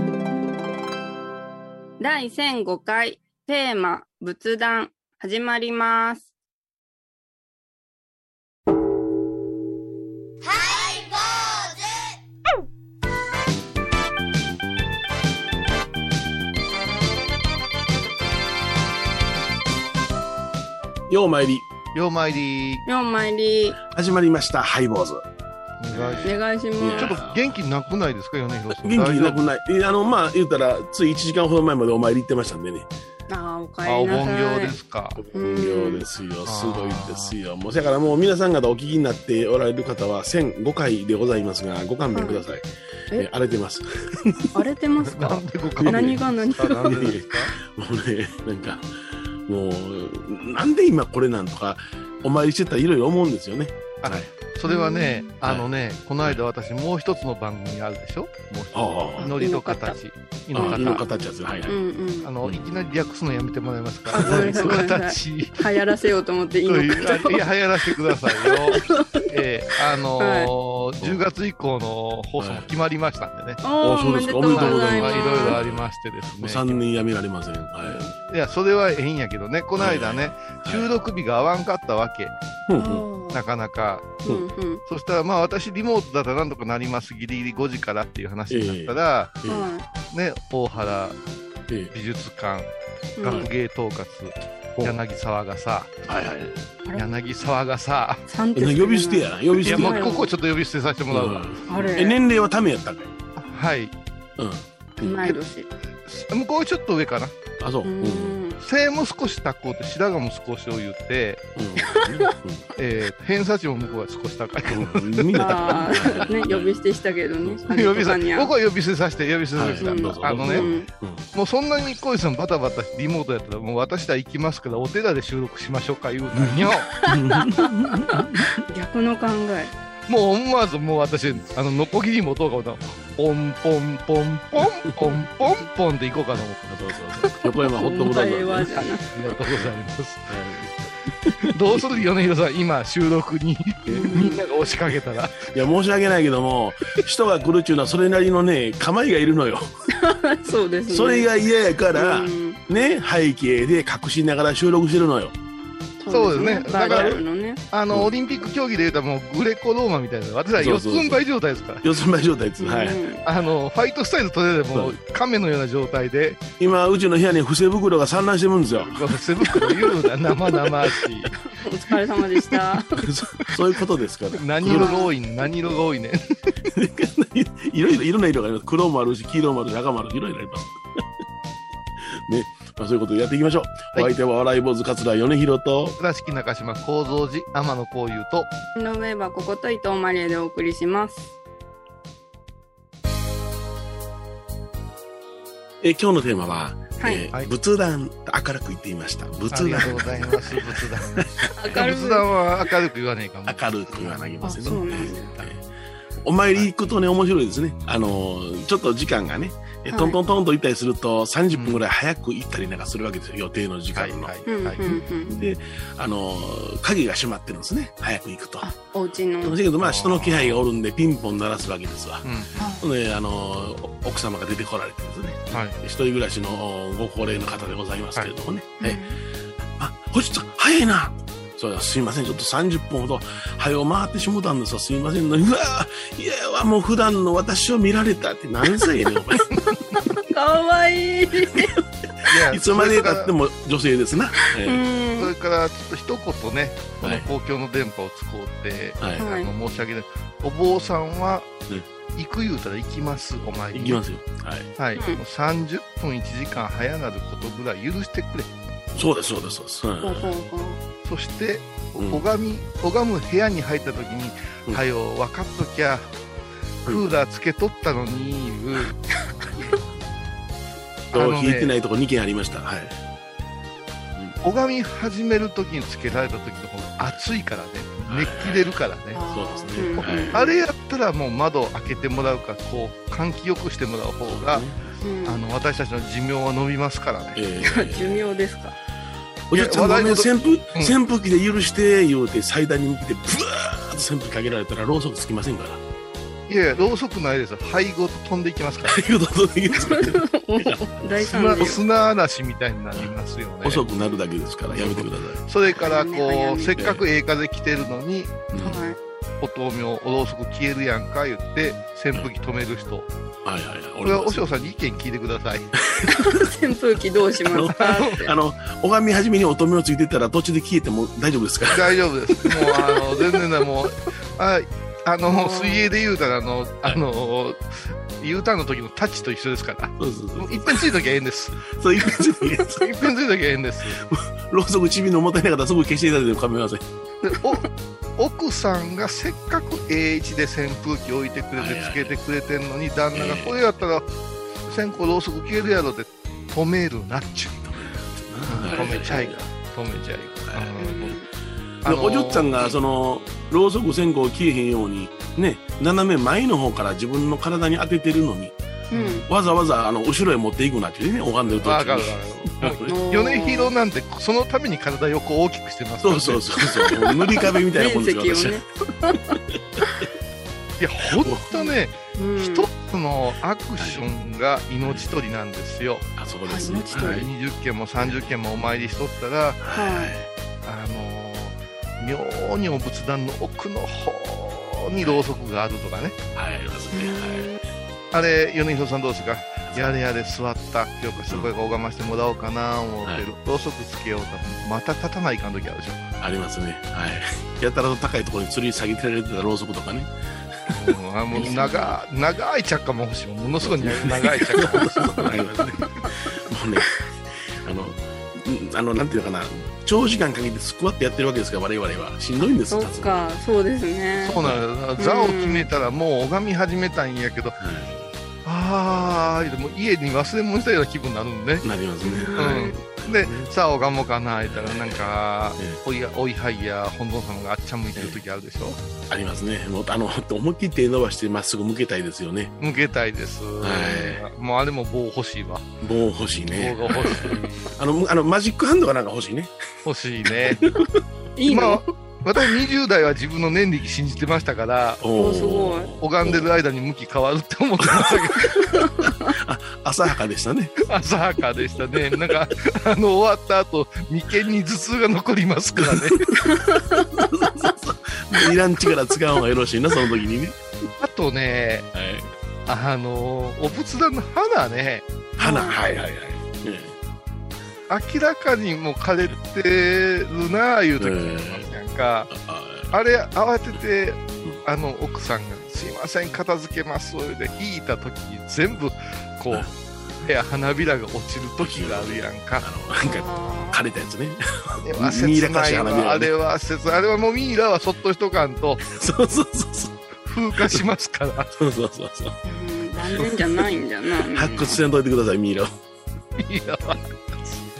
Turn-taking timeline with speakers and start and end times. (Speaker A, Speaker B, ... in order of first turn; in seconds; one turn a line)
Speaker A: 2.0-6.3
Speaker B: 21.1-21.7
Speaker C: 21.9-22.8
Speaker A: 22.9-23.8
Speaker B: 23.9-25.2
Speaker C: 25.8-26.4
Speaker B: 25.9-27.6
Speaker A: 26.2-27.1
Speaker C: 27.0-29.4
Speaker B: 28.8-32.9
Speaker A: 33.3-34.8
Speaker C: 33.8-35.2
Speaker B: 35.2-44.5
Speaker A: 35.3-36.0
Speaker C: 36.4-37.4
Speaker A: 42.1-42.4
Speaker A: 44.5-47.1
Speaker C: 45.0-47.5
Speaker B: 45.8-48.9
Speaker B: 49.5-54.3
Speaker C: 54.0-61.0
Speaker A: 54.6-55.3
Speaker B: 55.4-55.7
Speaker B: 58.7-59.3
Speaker A: 59.2-60.0
Speaker B: 60.5-61.8
Speaker A: 60.5-61.0
Speaker A: 61.7-62.3
Speaker C: 62.2-65.6
Speaker B: 64.1-64.9
Speaker A: 64.1-69.2
Speaker C: 66.7-73.6
Speaker A: 70.2-70.5
Speaker B: 72.4-72.7
Speaker A: 73.6-75.6
Speaker B: 73.8-78.0
Speaker C: 74.5-76.8
Speaker C: 77.9-82.3
Speaker B: 79.8-80.9
Speaker B: 82.7-83.1
Speaker A: 82.8-83.4
Speaker C: 83.3-84.2
Speaker A: 84.2-84.8
Speaker C: 84.9-89.3
Speaker B: 88.5-89.7
Speaker A: 89.5-89.8
Speaker C: 90.1-91.2
Speaker B: 91.7-91.9
Speaker C: 91.9-92.7
Speaker A: 93.2-93.5
Speaker C: 93.2-95.9
Speaker B: 96.1-96.6
Speaker C: 96.9-98.2
Speaker A: 98.3-100.3
Speaker B: 98.5-100.2
Speaker C: 99.7-101.6
Speaker B: 101.1-103.1
Speaker A: 101.7-102.2
Speaker C: 103.4-103.9
Speaker B: 104.4-105.3
Speaker A: 105.0-105.7
Speaker C: 106.1-107.3
Speaker B: 107.6-108.4
Speaker A: 107.8-108.6
Speaker C: 108.6-111.4
Speaker B: 111.5-112.6
Speaker A: 111.9-112.2
Speaker C: 112.8-116.0
Speaker B: 114.7-116.7
Speaker A: 115.4-118.5
Speaker B: 117.4-118.2
Speaker C: 117.7-120.7
Speaker B: 119.5-121.3
Speaker A: 119.8-120.9
Speaker C: 121.3-126.9
Speaker B: 126.3-128.5
Speaker A: 127.1-129.7
Speaker C: 130.1-136.8
Speaker B: 136.7-138.8
Speaker A: 137.3-139.0
Speaker C: 138.7-140.3
Speaker B: 140.3-142.0
Speaker C: 141.5-145.5
Speaker B: 143.8-144.2
Speaker A: 144.0-144.3
Speaker B: 145.4-149.7
Speaker A: 150.0-151.3
Speaker B: 150.9-155.3
Speaker A: 151.9-152.6
Speaker A: 156.0-157.6
Speaker C: 156.1-157.2
Speaker B: 156.7-157.2
Speaker C: 157.7-161.8
Speaker B: 160.6-161.2
Speaker B: 161.8-163.0
Speaker A: 162.6-163.2
Speaker C: 163.2-166.4
Speaker B: 166.6-168.9
Speaker C: 168.7-171.3
Speaker A: 171.4-173.0
Speaker B: 173.0-174.9
Speaker C: 174.3-176.2
Speaker A: 174.6-175.1
Speaker B: 176.7-181.0
Speaker B: 182.2-185.9
Speaker C: 186.0-188.5
Speaker A: 188.8-191.3
Speaker B: 195.8-201.9
Speaker A: 197.0-197.2
Speaker C: 199.5-205.5
Speaker A: 201.6-202.3
Speaker B: 203.4-205.6
Speaker A: 204.4-205.3
Speaker B: 206.2-214.3
Speaker A: 209.9-210.2
Speaker C: 211.5-211.8
Speaker C: 213.9-215.0
Speaker A: 214.5-215.4
Speaker B: 215.3-218.7
Speaker A: 218.6-219.6
Speaker B: 219.4-222.2
Speaker C: 219.8-220.6
Speaker C: 222.2-222.5
Speaker A: 222.6-222.8
Speaker B: 222.8-229.0
Speaker C: 225.5-225.8
Speaker A: 228.8-229.2
Speaker B: 229.8-239.4
Speaker A: 239.9-241.7
Speaker C: 242.2-243.3
Speaker B: 242.5-244.9
Speaker A: 244.5-245.3
Speaker C: 245.2-251.5
Speaker B: 247.0-247.3
Speaker B: 249.0-249.2
Speaker A: 249.2-249.5
Speaker C: 252.2-254.0
Speaker B: 253.7-254.7
Speaker C: 254.8-258.5
Speaker B: 258.9-260.3
Speaker A: 260.0-260.8
Speaker C: 261.0-266.1
Speaker B: 261.9-262.2
Speaker C: 266.9-269.0
Speaker C: 271.1-271.7
Speaker B: 271.1-272.9
Speaker C: 274.4-279.2
Speaker B: 278.1-280.4
Speaker A: 279.1-280.6
Speaker C: 280.0-284.6
Speaker B: 284.2-285.0
Speaker A: 285.0-285.4
Speaker C: 285.2-287.4
Speaker B: 287.3-288.2
Speaker A: 287.6-288.8
Speaker B: 289.5-295.8
Speaker C: 289.5-290.9
Speaker C: 296.5-299.0
Speaker B: 298.9-300.9
Speaker A: 299.7-301.8
Speaker C: 301.2-303.8
Speaker B: 303.6-305.4
Speaker C: 304.7-308.5
Speaker A: 305.8-306.8
Speaker B: 306.8-307.0
Speaker B: 308.5-308.8
Speaker A: 308.6-309.0
Speaker C: 309.4-313.1
Speaker B: 313.4-314.4
Speaker C: 314.0-315.7
Speaker B: 315.8-316.4
Speaker A: 316.2-318.3
Speaker B: 317.4-322.0
Speaker C: 317.8-318.2
Speaker C: 321.7-327.6
Speaker A: 325.3-325.8
Speaker C: 328.2-331.7
Speaker B: 330.0-330.9
Speaker B: 331.7-332.9
Speaker C: 332.7-334.0
Speaker B: 334.0-336.8
Speaker A: 337.2-337.7
Speaker C: 338.2-344.1
Speaker B: 341.6-342.1
Speaker B: 343.1-343.6
Speaker C: 344.6-347.7
Speaker B: 347.6-349.4
Speaker C: 348.4-351.1
Speaker B: 350.3-351.1
Speaker A: 350.8-351.3
Speaker B: 351.8-358.6
Speaker C: 351.8-352.7
Speaker A: 358.9-359.2
Speaker C: 358.9-359.2
Speaker B: 359.2-363.0
Speaker C: 361.6-366.5
Speaker A: 362.9-363.7
Speaker B: 366.0-368.6
Speaker A: 366.8-369.4
Speaker C: 370.8-376.1
Speaker B: 371.2-371.6
Speaker A: 372.1-372.7
Speaker B: 373.8-374.0
Speaker B: 376.2-377.3
Speaker A: 376.5-377.2
Speaker C: 376.9-379.6
Speaker B: 378.0-378.2
Speaker B: 379.6-380.3
Speaker A: 379.7-380.1
Speaker C: 380.6-386.2
Speaker B: 385.0-385.2
Speaker B: 386.3-387.5
Speaker A: 386.9-387.6
Speaker C: 388.1-396.0
Speaker B: 389.7-389.9
Speaker B: 396.2-400.1
Speaker C: 400.7-404.9
Speaker B: 401.3-401.9
Speaker A: 401.4-401.9
Speaker B: 403.6-407.0
Speaker B: 407.6-413.2
Speaker A: 412.7-414.4
Speaker C: 414.2-417.6
Speaker A: 415.0-415.7
Speaker B: 417.6-418.1
Speaker C: 418.4-421.6
Speaker B: 421.6-423.5
Speaker A: 422.0-422.7
Speaker C: 422.4-428.8
Speaker B: 424.4-425.8
Speaker B: 429.1-432.5
Speaker C: 432.6-435.7
Speaker B: 433.6-434.2
Speaker B: 435.8-439.5
Speaker C: 436.5-437.7
Speaker C: 439.8-440.6
Speaker B: 440.2-440.9
Speaker A: 441.4-441.8
Speaker C: 441.5-445.0
Speaker B: 445.0-446.5
Speaker A: 445.1-445.9
Speaker C: 446.0-448.6
Speaker B: 447.8-450.7
Speaker C: 450.9-456.3
Speaker B: 455.8-460.6
Speaker A: 456.4-457.1
Speaker C: 461.0-461.9
Speaker B: 461.9-462.3
Speaker C: 462.7-465.1
Speaker B: 465.4-466.9
Speaker A: 465.4-465.8
Speaker C: 467.9-472.3
Speaker B: 471.0-471.7
Speaker B: 472.3-472.9
Speaker C: 472.9-482.6
Speaker B: 481.6-486.3
Speaker A: 483.0-483.9
Speaker C: 484.8-488.8
Speaker B: 488.8-489.9
Speaker C: 490.2-491.5
Speaker B: 490.6-490.8
Speaker B: 491.6-492.4
Speaker A: 492.4-494.8
Speaker B: 494.3-495.8
Speaker C: 496.4-497.2